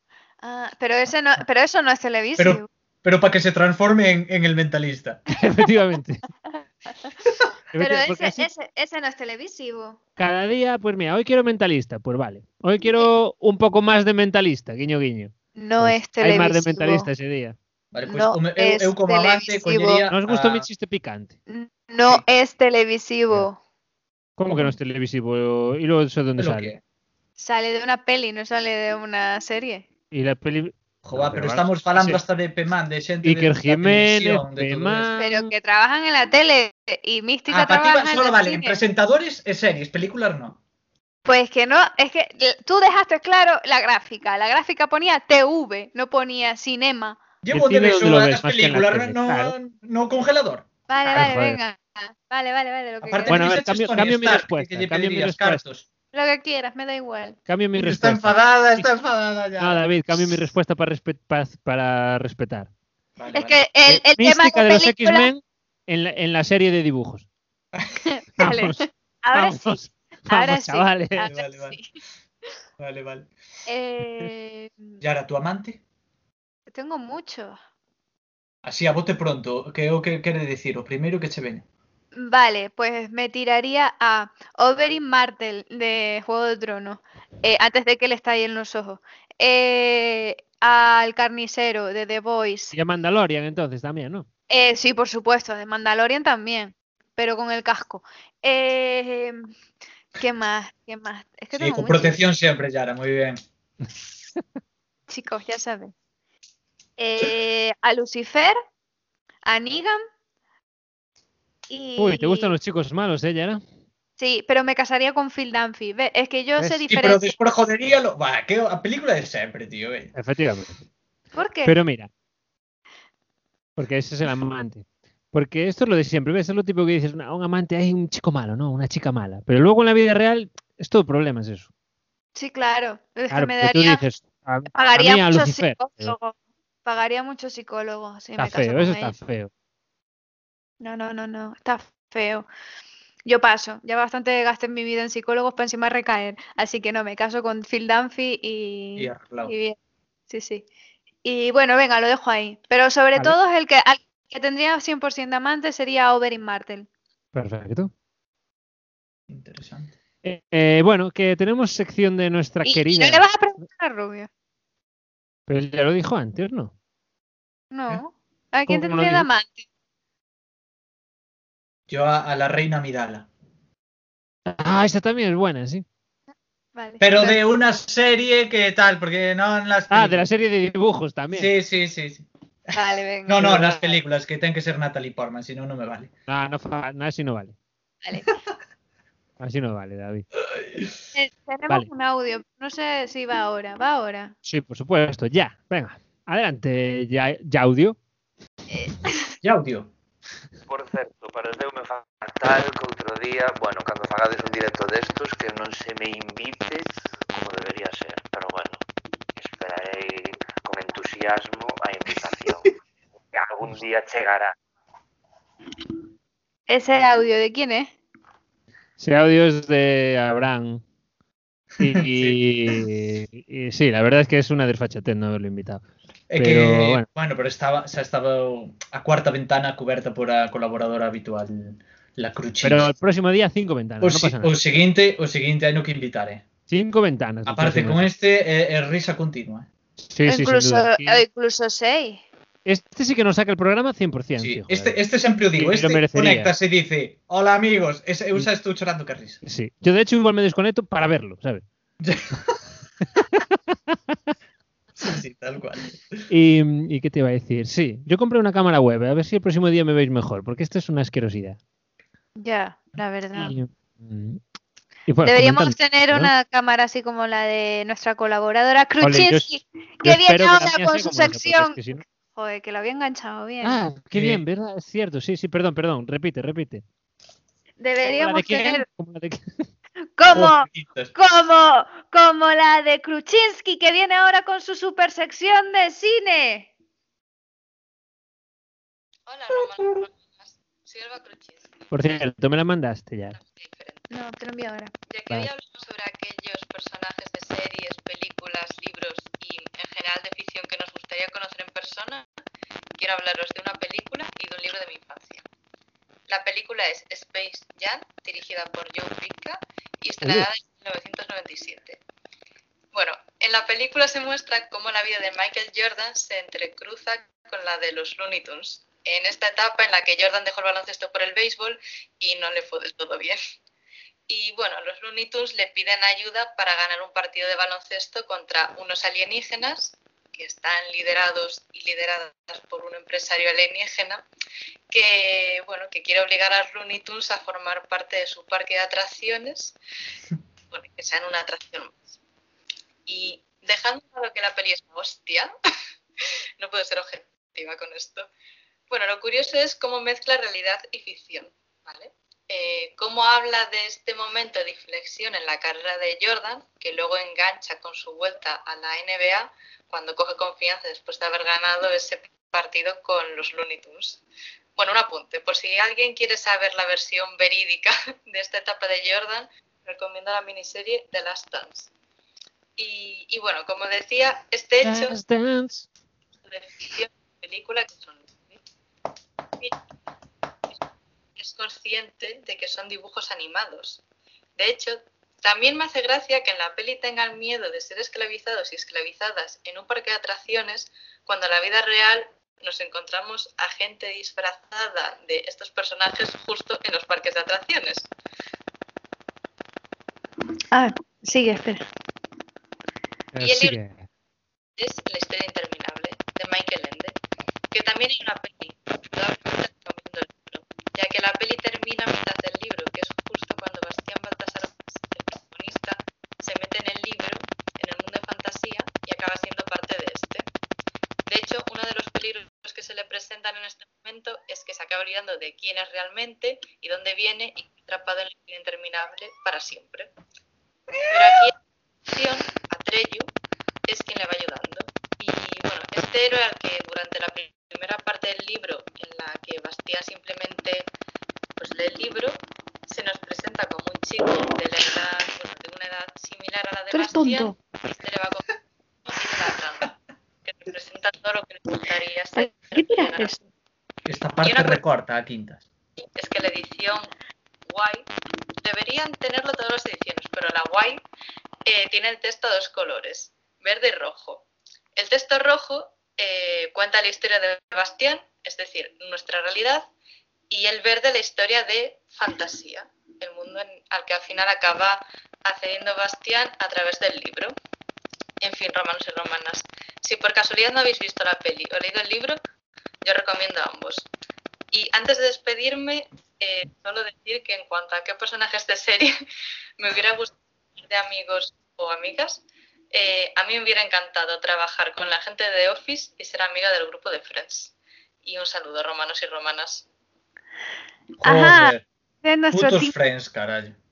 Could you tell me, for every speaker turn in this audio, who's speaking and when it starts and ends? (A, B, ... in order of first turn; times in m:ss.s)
0:00.4-0:02.7 A
0:02.4-0:05.2 B
0:05.3-0:06.2 C
0:07.7-0:08.5 C
0:07.8-0:10.0 A
0:10.2-0:17.6 C
0:12.8-0:13.1 A
0:15.6-0:17.1 A
0:17.9-0:20.7 B
0:18.1-0:20.0 A
0:20.1-0:21.4 C
0:21.5-0:23.6 A
0:24.4-0:26.7 C
0:24.5-0:24.8 B
0:26.4-0:26.8 B
0:27.4-0:29.9 A
0:30.1-0:32.2 C
0:31.1-0:35.1 B
0:33.2-0:35.5 C
0:35.2-0:38.8 A
0:37.5-0:40.6 B
0:41.3-0:47.2 A
0:47.4-0:50.7 B
0:47.5-0:49.5 C
0:50.9-0:53.5 A
0:51.1-0:51.6 C
0:53.0-0:55.9 B
0:53.3-0:55.6 C
0:56.1-0:57.4 A
0:57.5-0:58.9 C
0:57.8-0:59.8 B
0:59.6-1:02.7 C
1:03.2-1:03.6 B
1:03.3-1:05.3 A
1:03.9-1:07.3 C
1:08.0-1:11.9 A
1:08.4-1:08.8 C
1:09.3-1:11.3 C
1:11.3-1:11.8 B
1:12.8-1:13.3 B
1:13.7-1:14.9 A
1:15.0-1:15.8 B
1:16.7-1:17.6 A
1:18.6-1:21.6 B
1:22.2-1:32.7 A
1:32.7-1:34.3 C
1:34.5-1:39.5 A
1:40.2-1:42.2 A
1:41.6-1:43.4 B
1:45.1-1:45.9 A
1:47.0-1:48.6 A
1:49.4-1:50.0 A
1:51.7-1:52.5 A
1:52.0-1:53.6 C
1:54.2-1:57.4 A
1:56.9-2:00.1 B
2:00.2-2:00.8 C
2:01.3-2:01.7 A
2:01.6-2:02.1 C
2:03.8-2:11.7 C
2:12.4-2:14.0 A
2:13.3-2:16.2 C
2:14.8-2:16.3 A
2:16.8-2:19.2 A
2:18.4-2:19.5 C
2:20.8-2:22.5 A
2:23.2-2:29.8 A
2:29.0-2:29.5 B
2:30.3-2:30.7 A
2:31.2-2:36.9 A
2:37.3-2:37.9 C
2:39.3-2:39.9 B
2:40.2-2:43.2 C
2:42.6-2:44.3 A
2:45.5-2:46.7 C
2:47.7-2:49.6 A
2:48.7-2:49.3 C
2:51.9-2:53.3 B
2:54.5-2:55.8 C
2:56.8-2:57.4 A
2:57.0-3:00.3 B
2:59.9-3:01.5 C
3:01.3-3:02.3 B
3:02.7-3:04.0 A
3:03.3-3:06.1 B
3:06.3-3:07.6 C
3:08.0-3:08.3 A
3:09.4-3:10.3 C
3:10.6-3:10.9 B
3:11.1-3:14.3 A
3:14.4-3:18.0 C
3:18.7-3:19.3 A
3:19.4-3:19.9 B
3:20.7-3:28.8 D
3:29.4-3:32.7 D
3:33.3-3:34.6 D
3:36.7-3:37.9 A
3:39.0-3:40.8 C
3:41.8-3:45.8 C
3:41.9-3:42.4 B
3:46.3-3:52.9 B
3:46.4-3:47.1 C
3:52.6-3:54.6 C
3:54.0-3:56.4 B
3:56.7-3:58.1 C
3:57.5-3:59.7 B
4:00.1-4:01.2 C
4:00.3-4:02.2 A
4:02.6-4:05.0 C
4:04.4-4:09.4 B
4:05.6-4:06.5 C
4:09.4-4:11.6 C
4:12.0-4:12.6 B
4:15.0-4:16.2 B
4:16.3-4:21.6 C
4:22.4-4:23.6 A
4:23.4-4:24.4 C
4:25.1-4:26.3 C
4:25.2-4:33.8 A
4:29.0-4:29.5 C
4:30.0-4:32.0 C
4:33.6-4:36.8 C
4:34.1-4:34.4 B
4:37.8-4:38.8 A
4:38.0-4:39.7 C
4:40.2-4:46.7 A
4:40.3-4:41.1 B
4:49.3-4:51.7 E
4:51.9-4:53.4 C
4:53.4-4:54.1 E
4:54.1-4:54.9 A
4:55.1-5:02.3 E
5:03.0-5:05.4 E
5:06.3-5:12.0 E
5:10.2-5:10.5 C
5:12.9-5:23.4 E
5:24.3-5:34.2 E
5:34.9-5:39.8 E
5:40.7-5:42.1 E
5:43.1-5:45.5 E
5:46.6-5:48.3 E
5:48.9-6:04.2 E
6:04.8-6:11.9 E
6:12.8-6:15.2 E
6:14.8-6:15.9 C
6:16.5-6:18.6 E
6:21.4-6:24.0 E
6:24.6-6:38.1 E
6:40.7-6:41.8 A
6:43.4-6:44.0 C
6:43.4-6:43.8 E
6:44.8-6:47.2 E
6:47.7-7:00.5 E
7:01.3-7:10.1 E
7:11.1-7:11.6 E
7:12.1-7:13.3 E
7:13.9-7:20.9 E
7:21.6-7:28.5 E
7:29.1-7:33.4 E
7:34.1-7:35.6 B
7:34.4-7:34.8 E
7:36.2-7:37.1 E
7:37.7-7:38.1 E
7:38.6-7:41.0 E
7:41.7-7:49.9 E
7:50.5-7:57.6 E
7:58.4-8:02.4 E
8:03.0-8:04.1 E
8:04.7-8:09.1 E
8:09.8-8:17.7 E
8:18.2-8:19.9 E
8:21.2-8:21.8 B
8:21.2-8:22.9 A
8:22.5-8:23.8 B